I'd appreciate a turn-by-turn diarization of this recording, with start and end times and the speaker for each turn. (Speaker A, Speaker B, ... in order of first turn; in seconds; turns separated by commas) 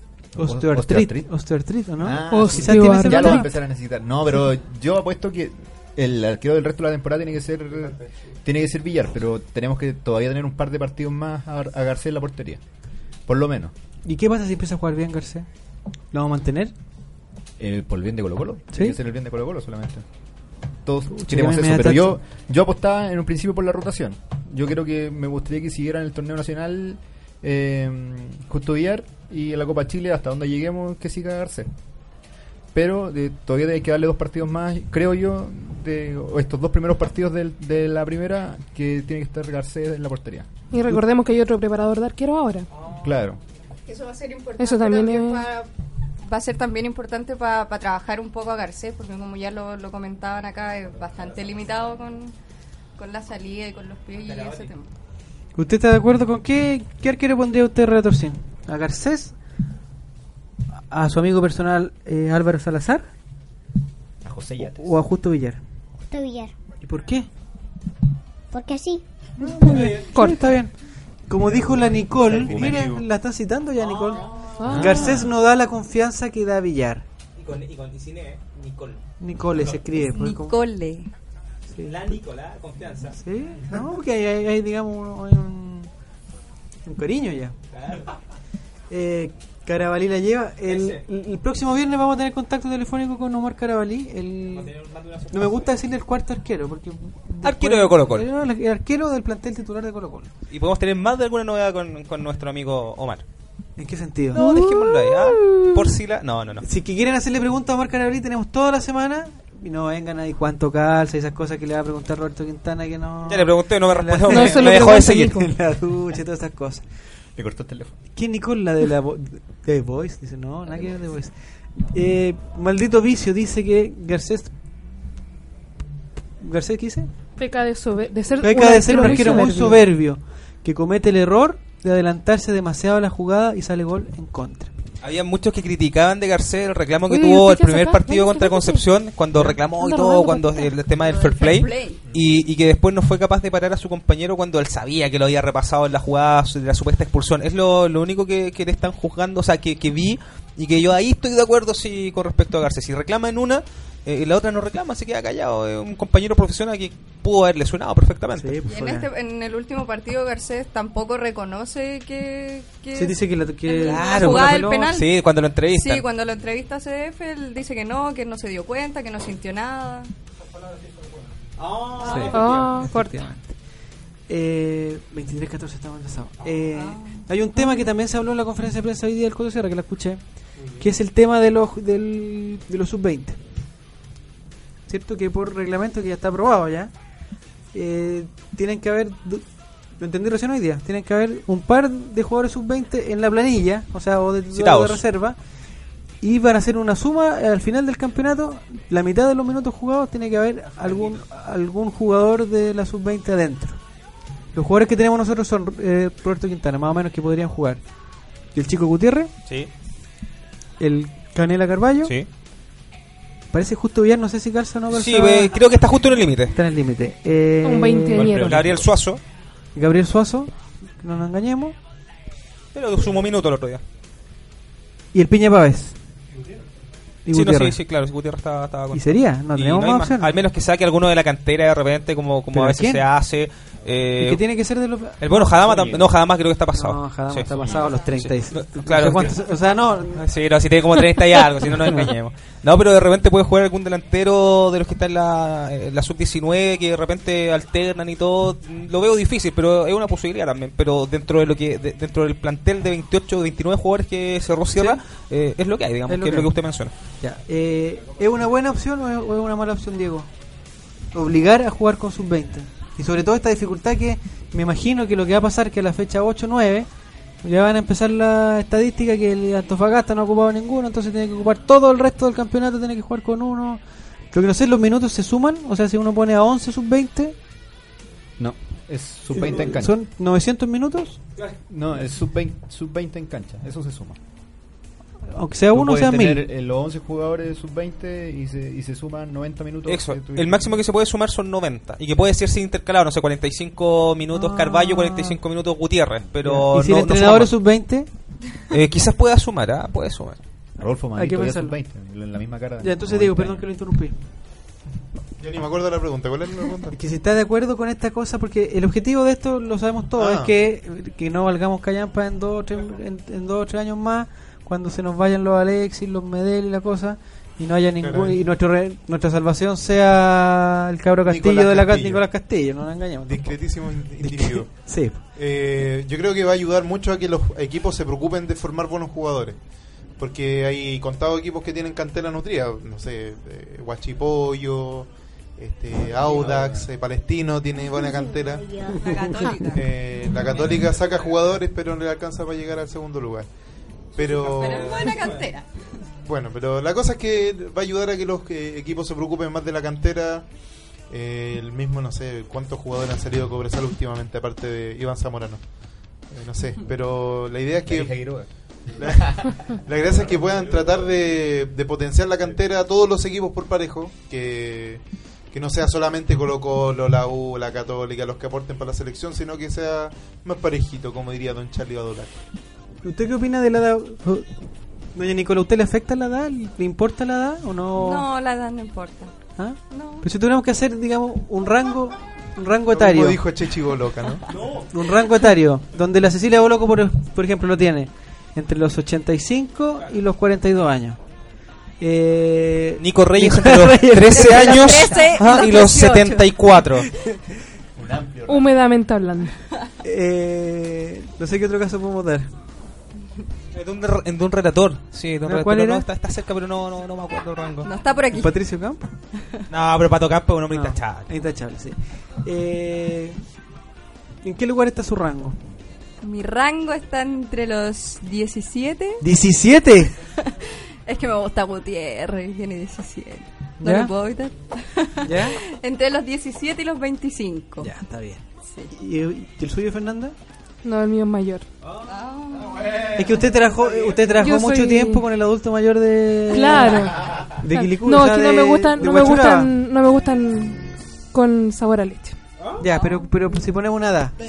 Speaker A: 0.3-1.3, Speaker B: 0.4-3.5, Speaker A: 2.0-12.6, Speaker C: 2.3-3.5, Speaker A: 13.3-13.7, Speaker B: 14.1-15.5, Speaker B: 16.1-16.7, Speaker A: 17.6-20.1, Speaker A: 20.8-31.7, Speaker B: 21.1-22.2, Speaker A: 32.7-41.0, Speaker C: 40.7-42.7, Speaker A: 43.0-43.4, Speaker D: 43.9-45.7, Speaker C: 44.6-45.5, Speaker D: 46.2-52.3, Speaker D: 53.0-54.9, Speaker B: 55.5-59.4, Speaker B: 60.9-63.1, Speaker A: 64.2-64.9, Speaker B: 64.6-65.6, Speaker E: 66.1-66.5, Speaker B: 66.8-67.3, Speaker E: 68.5-69.0, Speaker B: 69.4-70.7, Speaker C: 69.7-70.5, Speaker F: 69.7-70.0, Speaker B: 71.3-77.0, Speaker A: 71.6-73.0, Speaker F: 74.1-74.6, Speaker C: 74.6-75.2, Speaker A: 74.7-75.2, Speaker F: 77.4-79.0, Speaker B: 79.2-80.6, Speaker D: 80.0-81.1, Speaker B: 81.8-82.2, Speaker F: 81.8-83.2, Speaker B: 83.2-85.9, Speaker B: 86.8-87.5, Speaker F: 87.7-88.0, Speaker B: 88.9-94.7, Speaker F: 90.7-91.0, Speaker F: 94.6-95.5, Speaker B: 95.3-100.3, Speaker F: 97.4-98.3, Speaker F: 100.5-103.2, Speaker B: 103.8-104.4, Speaker F: 104.3-106.6, Speaker C: 104.3-105.9, Speaker B: 106.6-116.8, Speaker F: 113.3-115.5, Speaker C: 114.3-115.5, Speaker A: 117.3-117.9, Speaker B: 118.1-124.5, Speaker B: 126.4-127.1, Speaker C: 127.4-129.8, Speaker B: 128.4-134.7, Speaker F: 129.0-129.4, Speaker F: 135.0-158.6, Speaker C: 137.1-138.8, Speaker C: 139.7-140.8, Speaker D: 140.9-142.0, Speaker B: 158.4-159.1, Speaker D: 158.7-165.1, Speaker B: 162.9-164.9, Speaker F: 163.8-166.1, Speaker D: 165.7-170.1, Speaker F: 171.6-172.8, Speaker D: 172.0-172.3, Speaker B: 172.0-173.5, Speaker C: 172.3-173.3, Speaker B: 174.3-180.2, Speaker D: 176.8-177.2, Speaker B: 180.8-183.4, Speaker B: 184.9-186.9, Speaker B: 187.7-189.4, Speaker B: 190.0-195.4, Speaker F: 194.5-195.0, Speaker B: 196.2-203.8, Speaker B: 204.6-207.8, Speaker B: 208.6-209.3, Speaker B: 210.8-212.1, Speaker B: 213.5-215.6, Speaker F: 214.9-216.6, Speaker B: 216.5-218.6, Speaker C: 217.6-218.6, Speaker F: 218.2-219.2, Speaker B: 219.8-221.7, Speaker F: 222.7-223.8, Speaker B: 225.1-225.9, Speaker B: 227.3-227.8, Speaker F: 227.3-234.4, Speaker B: 228.9-230.3, Speaker B: 232.5-233.0, Speaker B: 234.2-235.2, Speaker F: 235.2-239.4, Speaker A: 235.6-236.1, Speaker B: 236.7-240.2, Speaker A: 237.6-237.9, Speaker F: 240.2-256.9, Speaker B: 241.7-242.1, Speaker B: 256.1-256.5, Speaker B: 257.2-260.3, Speaker B: 261.1-266.9, Speaker B: 267.4-277.3, Speaker A: 278.4-279.9, Speaker B: 279.3-281.2, Speaker A: 281.7-284.2, Speaker B: 285.3-286.4, Speaker A: 285.7-290.7, Speaker F: 289.9-297.5, Speaker B: 294.3-295.4, Speaker B: 296.4-298.1, Speaker F: 298.7-300.4, Speaker A: 300.8-303.6, Speaker B: 301.1-301.7, Speaker B: 302.8-304.1, Speaker G: 305.4-306.9, Speaker B: 306.9-325.2, Speaker G: 310.2-310.5, Speaker G: 318.0-318.4, Speaker G: 321.3-322.3, Speaker G: 323.3-329.6, Speaker G: 330.1-338.7, Speaker A: 336.3-336.6, Speaker E: 337.8-339.6, Speaker D: 338.9-339.9, Speaker G: 339.6-343.5, Speaker G: 344.1-345.2, Speaker D: 344.5-345.7, Speaker G: 346.2-350.5, Speaker G: 351.1-372.3, Speaker A: 357.9-359.6, Speaker B: 373.0-374.5, Speaker B: 375.1-378.3, Speaker D: 378.0-379.3, Speaker B: 379.6-383.4, Speaker D: 379.9-380.3, Speaker G: 382.9-384.4, Speaker B: 384.9-391.2, Speaker B: 392.0-395.1, Speaker F: 393.0-397.1, Speaker D: 394.3-396.5, Speaker A: 398.0-398.7, Speaker C: 398.5-399.5, Speaker B: 400.0-402.5, Speaker F: 403.7-407.9, Speaker B: 405.4-406.1, Speaker D: 407.8-408.6, Speaker B: 408.3-409.1, Speaker D: 409.4-409.6, Speaker F: 409.7-411.3, Speaker B: 410.7-413.4, Speaker B: 414.4-415.6, Speaker D: 416.2-419.2, Speaker B: 419.2-420.1, Speaker D: 420.4-427.9, Speaker B: 423.8-424.1, Speaker B: 425.2-425.6, Speaker B: 427.8-430.3, Speaker D: 428.6-428.9, Speaker C: 430.8-431.6, Speaker D: 432.0-433.1, Speaker B: 433.1-439.7, Speaker C: 434.4-435.3, Speaker C: 436.5-442.4, Speaker B: 442.8-444.4